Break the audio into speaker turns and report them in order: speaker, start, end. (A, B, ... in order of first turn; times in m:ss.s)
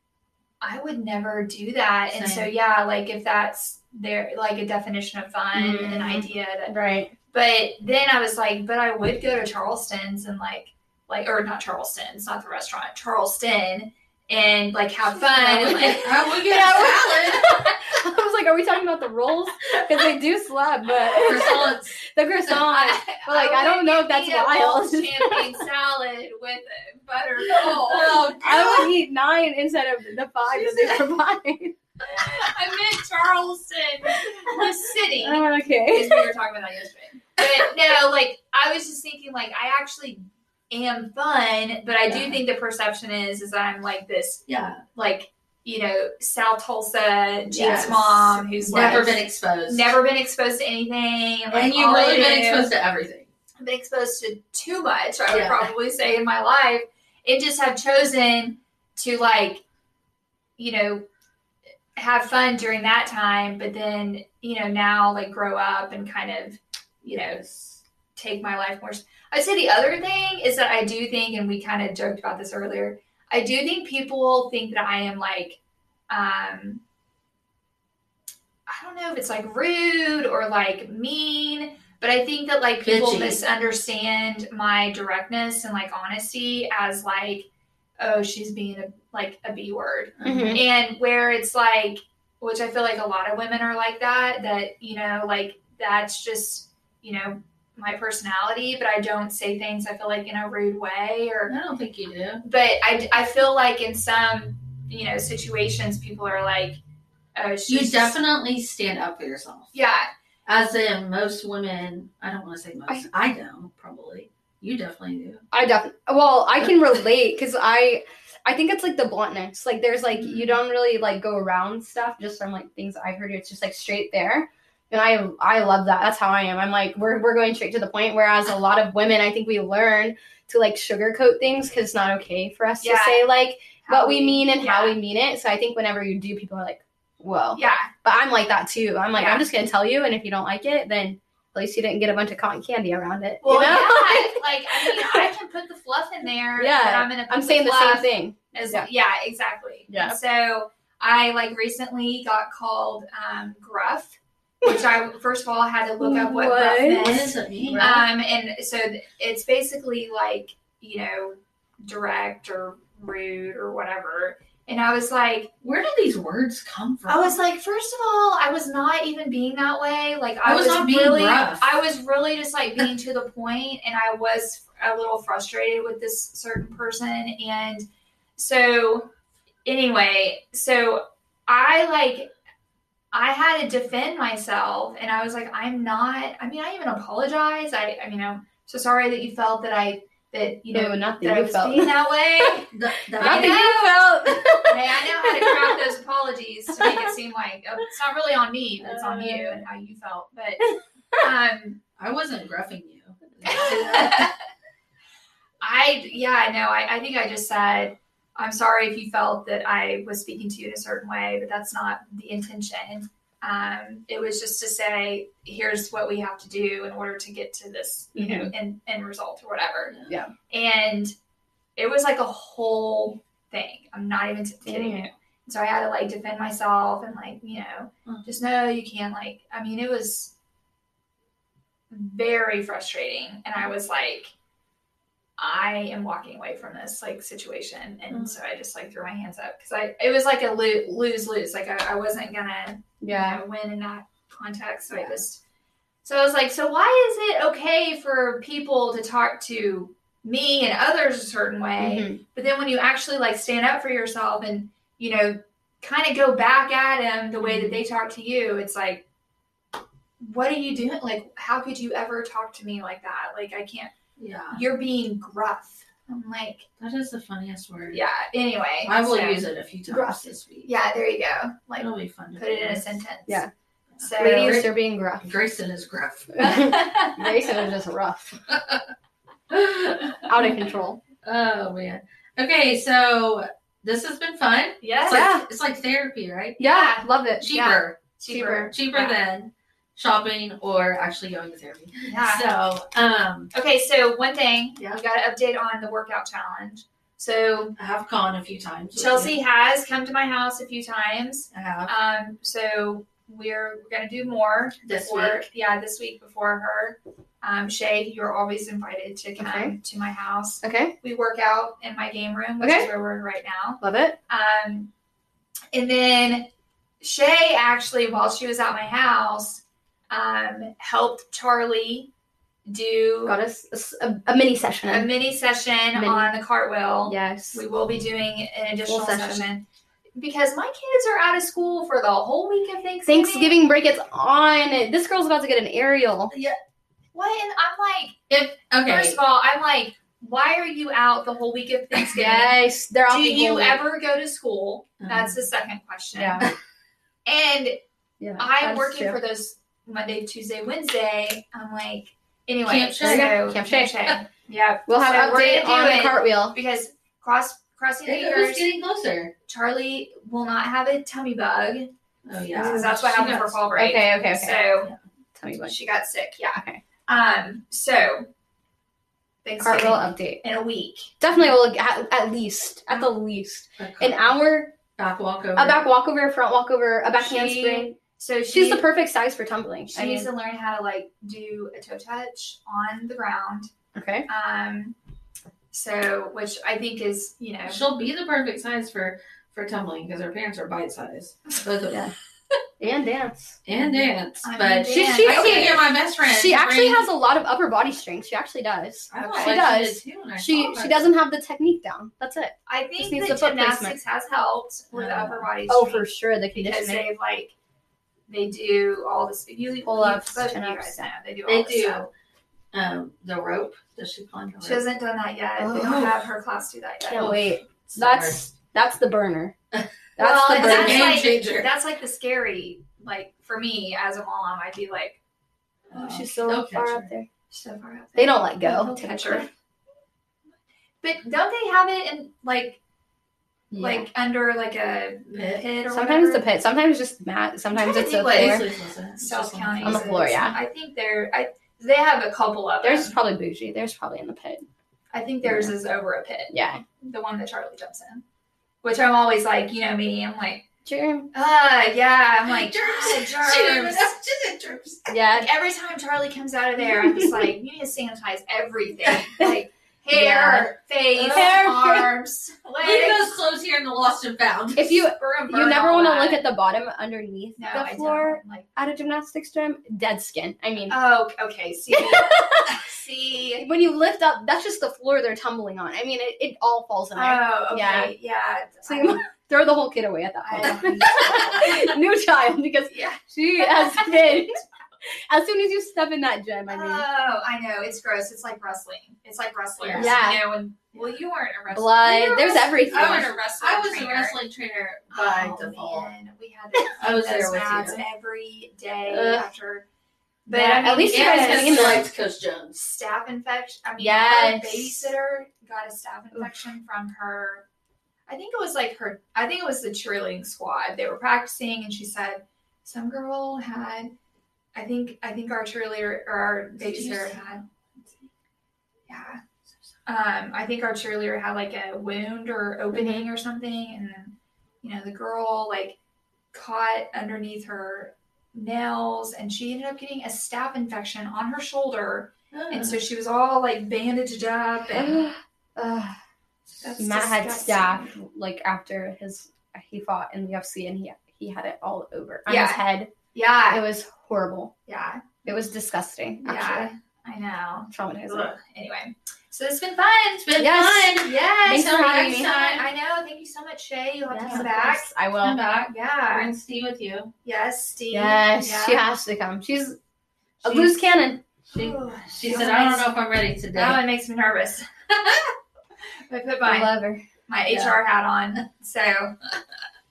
0:00.6-0:06.7 A
0:02.1-0:02.5 B
0:05.5-0:07.1 C
0:07.3-0:16.3 A
0:15.1-0:25.6 C
0:15.6-0:17.6 B
0:21.2-0:21.6 A
0:21.2-0:22.0 B
0:22.5-0:28.4 A
0:27.5-0:28.9 B
0:28.4-0:31.7 C
0:30.6-0:31.0 B
0:32.0-0:44.4 A
0:34.3-0:34.6 C
0:35.2-0:36.3 C
0:42.0-0:42.4 B
0:44.5-0:44.8 B
0:44.9-0:52.7 A
0:47.5-0:49.9 B
0:48.7-0:49.1 C
0:51.5-0:53.3 B
0:53.6-0:59.6 A
0:55.3-0:55.7 B
1:00.6-1:01.0 A
1:02.0-1:07.4 A
1:07.1-1:07.8 B
1:08.2-1:16.8 A
1:18.7-1:41.5 A
1:22.8-1:23.4 B
1:30.2-1:30.6 B
1:30.2-1:30.6 C
1:41.5-1:42.4 B
1:42.4-1:46.8 A
1:47.3-1:48.2 A
1:47.7-1:49.7 B
1:49.7-1:50.1 A
1:50.4-1:55.4 B
1:55.5-2:25.3 C
2:12.8-2:13.2 A
2:13.8-2:15.0 A
2:17.5-2:17.9 A
2:19.1-2:19.4 A
2:23.4-2:45.5 A
2:26.6-2:28.9 C
2:29.9-2:30.2 C
2:36.0-2:37.8 C
2:36.9-2:38.1 B
2:45.6-2:47.4 B
2:47.1-2:57.8 A
2:50.4-2:51.8 B
2:58.4-2:59.1 A
2:59.6-3:02.3 A
3:03.1-3:14.0 A
3:10.7-3:12.5 C
3:12.7-3:13.7 B
3:13.2-3:15.7 C
3:14.6-3:20.6 A
3:16.8-3:17.1 C
3:18.9-3:19.6 C
3:20.6-3:21.2 C
3:21.2-3:21.8 A
3:22.0-3:24.3 B
3:23.4-3:24.3 A
3:25.6-3:40.0 A
3:38.1-3:38.5 C
3:39.9-3:40.1 B
3:40.5-3:41.1 A
3:41.8-3:50.3 A
3:44.6-3:45.0 C
3:51.9-3:54.3 A
3:55.4-4:05.4 A
3:58.1-3:58.4 B
4:03.0-4:03.4 C
4:06.0-4:19.0 A
4:11.8-4:12.2 C
4:17.4-4:17.8 B
4:20.2-4:23.9 A
4:24.2-4:24.6 B
4:24.5-4:26.7 A
4:26.8-4:28.0 B
4:27.9-4:29.4 A
4:28.8-4:30.7 B
4:29.9-4:30.3 C
4:30.6-4:33.4 A
4:31.8-4:33.0 B
4:34.0-4:34.7 B
4:34.0-4:34.7 A
4:34.1-4:35.2 C
4:35.2-4:37.1 B
4:36.3-4:38.4 C
4:38.5-4:38.8 B
4:39.5-4:40.6 B
4:40.3-4:41.0 C
4:41.2-4:46.6 B
4:44.8-4:45.2 A
4:45.1-4:45.4 C
4:46.6-4:47.5 C
4:46.6-4:49.2 A
4:47.4-4:53.5 B
4:48.3-4:48.7 C
4:52.0-4:52.4 A
4:53.5-4:57.7 A
4:57.8-4:59.4 B
4:59.0-5:14.9 A
5:01.5-5:01.9 B
5:04.8-5:05.4 B
5:09.4-5:09.7 C
5:10.6-5:10.9 C
5:12.6-5:12.9 C
5:13.8-5:14.2 C
5:15.7-5:16.5 A
5:17.0-5:22.1 A
5:22.6-5:23.4 A
5:23.2-5:25.1 C
5:24.9-5:29.6 A
5:25.9-5:26.3 C
5:27.0-5:27.6 C
5:28.9-5:29.5 C
5:30.2-5:33.5 A
5:33.0-5:36.3 C
5:36.3-5:36.6 B
5:37.1-5:38.2 A
5:38.3-5:39.2 B
5:38.8-5:42.5 A
5:42.1-5:43.8 C
5:43.1-5:46.5 A
5:45.0-5:45.3 B
5:46.1-5:46.5 C
5:47.2-5:47.8 A
5:48.2-5:49.2 C
5:48.4-5:58.7 A
5:52.6-5:53.4 B
5:53.0-5:53.9 C
5:54.9-5:56.6 C
5:58.0-5:59.3 B
5:59.5-6:01.9 A
6:02.2-6:03.6 B
6:02.5-6:04.9 A
6:02.6-6:02.8 C
6:03.8-6:04.6 C
6:05.4-6:05.7 C
6:05.5-6:08.3 A
6:06.6-6:06.8 C
6:09.4-6:11.4 A
6:09.6-6:10.4 C
6:11.2-6:14.8 C
6:13.8-6:14.3 B
6:14.9-6:15.8 B
6:15.6-6:18.0 C
6:17.2-6:18.8 A
6:18.5-6:20.3 C
6:19.9-6:23.7 A
6:23.9-6:24.3 C
6:24.3-6:25.0 A
6:25.7-6:27.8 A
6:27.6-6:32.0 B
6:32.8-6:33.6 C
6:33.6-6:37.1 B
6:33.7-6:35.9 A
6:34.9-6:43.9 C
6:39.1-6:41.1 B
6:39.2-6:39.6 A
6:42.7-6:47.5 A
6:44.9-6:45.5 B
6:45.7-6:47.0 C
6:48.3-6:52.0 A
6:49.8-6:51.1 C
6:51.4-6:52.1 B
6:52.7-6:54.8 B
6:54.6-6:57.4 A
6:55.6-6:56.2 B
6:57.0-6:59.5 C
6:57.1-6:58.5 B
7:00.2-7:01.1 C
7:00.2-7:05.2 A
7:00.5-7:01.7 B
7:05.9-7:07.1 B
7:05.9-7:07.3 C
7:07.5-7:09.5 A
7:08.2-7:09.5 C
7:11.0-7:12.8 A
7:13.7-7:14.1 C
7:13.8-7:16.4 A
7:15.3-7:15.6 B
7:15.9-7:18.6 C
7:17.7-7:23.1 A
7:18.2-7:20.1 B
7:19.8-7:20.6 C
7:22.8-7:24.6 C
7:25.1-7:28.2 A
7:25.4-7:25.7 C
7:26.5-7:26.8 C
7:28.8-7:30.6 A
7:30.8-7:31.3 C
7:31.3-7:34.1 A
7:32.4-7:35.1 B
7:35.1-7:35.5 C
7:35.3-7:43.3 A
7:37.0-7:37.4 C
7:40.1-7:42.1 C
7:41.2-7:41.6 B
7:42.8-7:45.1 B
7:44.8-7:51.0 C
7:45.0-7:46.4 A
7:47.6-7:48.8 A
7:50.9-7:53.7 A
7:51.9-7:52.7 C
7:53.6-7:58.1 C
7:57.1-7:59.2 A
7:58.8-8:07.0 C
8:00.4-8:01.9 A
8:02.9-8:04.4 A
8:06.7-8:14.4 A
8:09.8-8:10.2 B
8:09.9-8:10.4 C
8:10.9-8:11.2 B
8:11.7-8:13.3 C
8:12.9-8:16.1 B
8:15.1-8:19.8 A
8:16.9-8:18.0 B
8:19.0-8:19.4 C
8:20.4-8:22.1 A
8:20.5-8:22.1 C
8:21.0-8:22.9 B
8:22.9-8:27.6 A
8:24.0-8:25.1 C
8:28.3-8:34.1 A
8:34.7-8:37.6 A
8:36.8-8:37.4 B
8:39.1-8:39.4 A
8:40.1-8:46.0 A
8:42.9-8:43.2 C
8:46.5-8:55.2 A
8:52.5-8:53.0 B
8:54.9-8:56.2 C
8:56.8-8:58.1 A
8:57.0-9:03.1 C
9:02.5-9:02.8 A
9:03.3-9:03.8 A
9:03.7-9:04.7 C
9:04.9-9:05.4 A
9:05.4-9:06.9 C
9:06.4-9:10.5 A
9:07.9-9:08.5 C
9:10.4-9:12.9 B
9:10.6-9:12.5 C
9:11.1-9:15.1 A
9:14.3-9:15.6 C
9:15.4-9:17.3 B
9:15.9-9:16.5 A
9:17.4-9:19.0 A
9:18.1-9:20.0 C
9:20.6-9:21.4 C
9:20.6-9:20.9 B
9:21.7-9:23.1 A
9:21.7-9:24.0 B
9:23.7-9:25.5 A
9:26.3-9:26.9 A
9:26.6-9:27.2 C
9:27.5-9:29.3 A
9:27.7-9:28.0 B